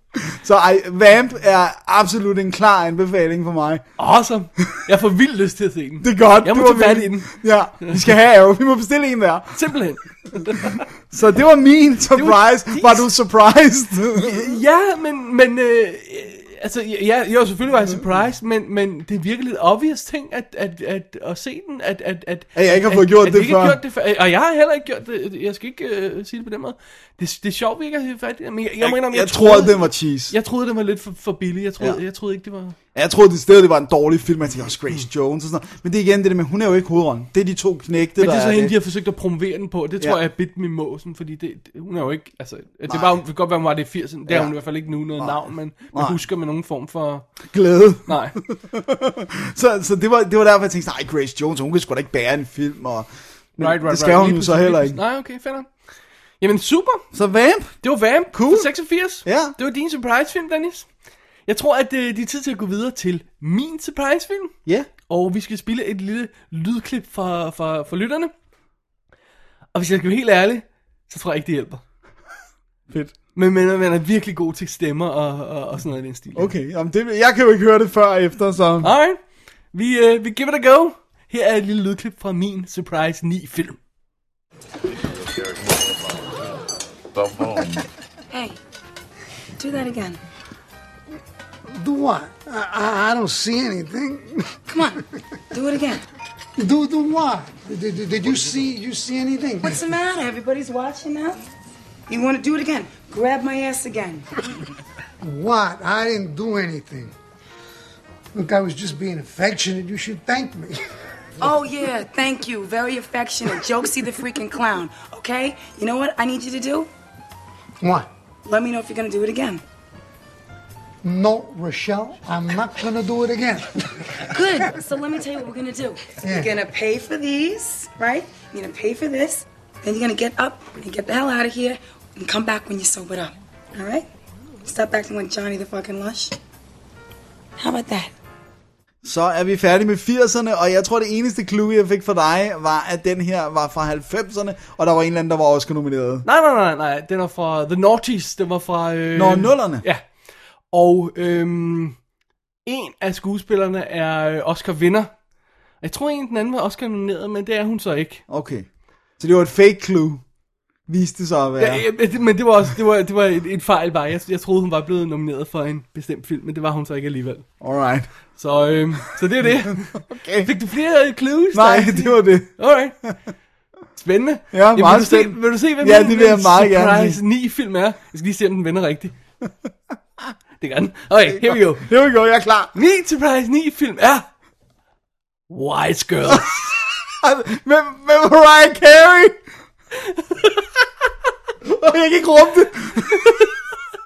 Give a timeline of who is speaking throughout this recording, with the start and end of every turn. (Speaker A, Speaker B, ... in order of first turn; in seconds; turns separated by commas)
Speaker A: 0.2-3.8, Speaker B: 4.0-8.0, Speaker A: 6.0-9.6, Speaker B: 9.5-10.8, Speaker A: 10.6-14.6, Speaker B: 12.1-13.1, Speaker B: 14.2-32.8, Speaker A: 22.5-23.8, Speaker A: 28.8-30.3, Speaker A: 32.9-38.7, Speaker B: 38.2-47.3, Speaker A: 42.9-43.2, Speaker A: 44.3-44.5, Speaker A: 45.2-46.2, Speaker A: 47.5-55.0, Speaker B: 48.0-48.4, Speaker B: 53.6-55.7, Speaker B: 56.4-57.0, Speaker A: 57.1-57.8, Speaker B: 57.8-60.9, Speaker A: 58.3-58.7, Speaker A: 59.2-59.5, Speaker B: 61.5-64.5, Speaker B: 65.1-68.3, Speaker B: 69.7-71.8, Speaker A: 72.9-73.1, Speaker B: 73.3-76.5, Speaker A: 76.3-78.9, Speaker B: 78.8-79.2, Speaker B: 79.7-83.8, Speaker C: 88.3-88.6, Speaker C: 89.6-90.2, Speaker D: 91.7-94.6, Speaker C: 94.7-95.0, Speaker C: 95.5-96.0, Speaker D: 96.6-99.8, Speaker C: 99.6-101.4, Speaker C: 102.1-104.2, Speaker D: 105.2-107.1, Speaker D: 108.3-110.8, Speaker C: 111.4-116.9, Speaker D: 117.8-118.1, Speaker C: 118.5-119.6, Speaker D: 121.0-124.2, Speaker C: 124.3-134.1, Speaker D: 126.2-126.5, Speaker C: 134.6-136.4, Speaker C: 137.6-138.1, Speaker A: 139.0-146.2, Speaker B: 146.2-150.0, Speaker A: 149.2-149.8, Speaker B: 150.7-152.0, Speaker B: 152.6-155.1, Speaker B: 155.8-158.2, Speaker A: 158.3-158.7, Speaker A: 159.2-160.2, Speaker A: 160.9-161.8, Speaker B: 161.6-167.4, Speaker A: 167.6-168.1, Speaker B: 168.4-173.0, Speaker A: 169.4-170.5, Speaker A: 171.5-172.5, Speaker B: 173.9-179.1, Speaker A: 174.5-177.2, Speaker B: 180.6-181.8, Speaker A: 181.3-182.7, Speaker B: 182.7-184.3, Speaker B: 185.5-186.7, Speaker A: 186.3-189.4, Speaker B: 190.0-190.6, Speaker A: 191.6-193.4, Speaker B: 193.1-193.5